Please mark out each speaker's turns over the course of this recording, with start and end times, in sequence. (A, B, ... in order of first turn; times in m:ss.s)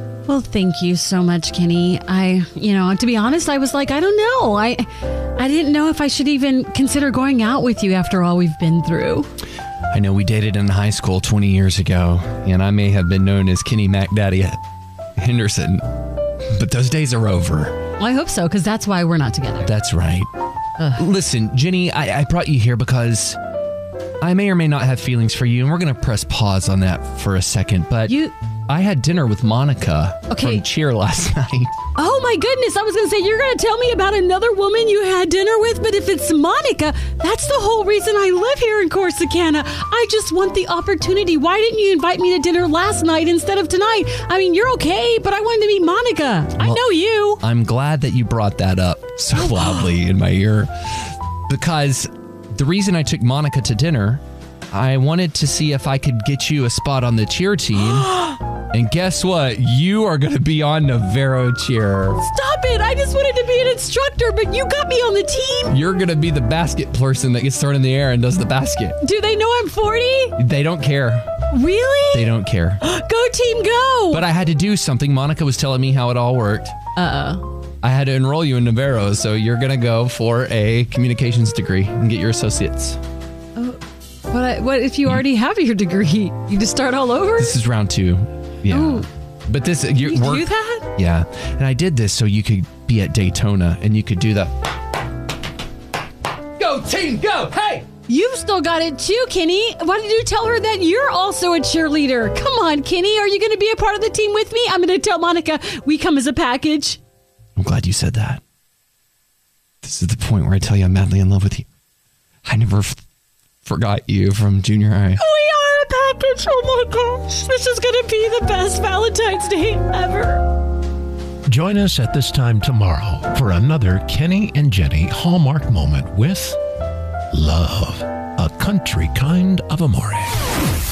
0:00.3-0:09.3 A
0:09.9-0:14.6 B
0:15.2-0:17.8 B
0:18.0-0:19.7 A
0:19.6-0:20.3 B
0:21.0-0:23.4 B
0:24.2-0:31.7 B
0:28.1-0:28.3 A
0:30.3-0:30.6 A
0:32.0-0:47.4 A
0:46.6-0:58.2 B
0:58.0-0:58.4 A
0:58.7-1:02.2 B
1:02.2-1:05.8 A
1:05.7-1:09.0 B
1:09.0-1:10.4 A
1:10.4-1:11.3 B
1:11.5-1:12.3 A
1:12.1-1:12.8 B
1:12.8-1:14.2 A
1:14.1-1:16.8 B
1:17.0-1:17.4 A
1:17.8-1:23.0 B
1:23.6-1:27.5 A
1:27.4-1:34.6 B
1:28.7-1:29.0 A
1:30.0-1:30.9 A
1:36.6-1:37.9 B
1:38.1-1:47.0 A
1:47.6-1:48.4 B
1:49.8-1:51.7 B
1:52.4-1:53.0 B
1:53.6-1:55.2 B
1:55.2-2:00.4 A
2:01.5-2:06.6 C
2:07.3-2:10.4 C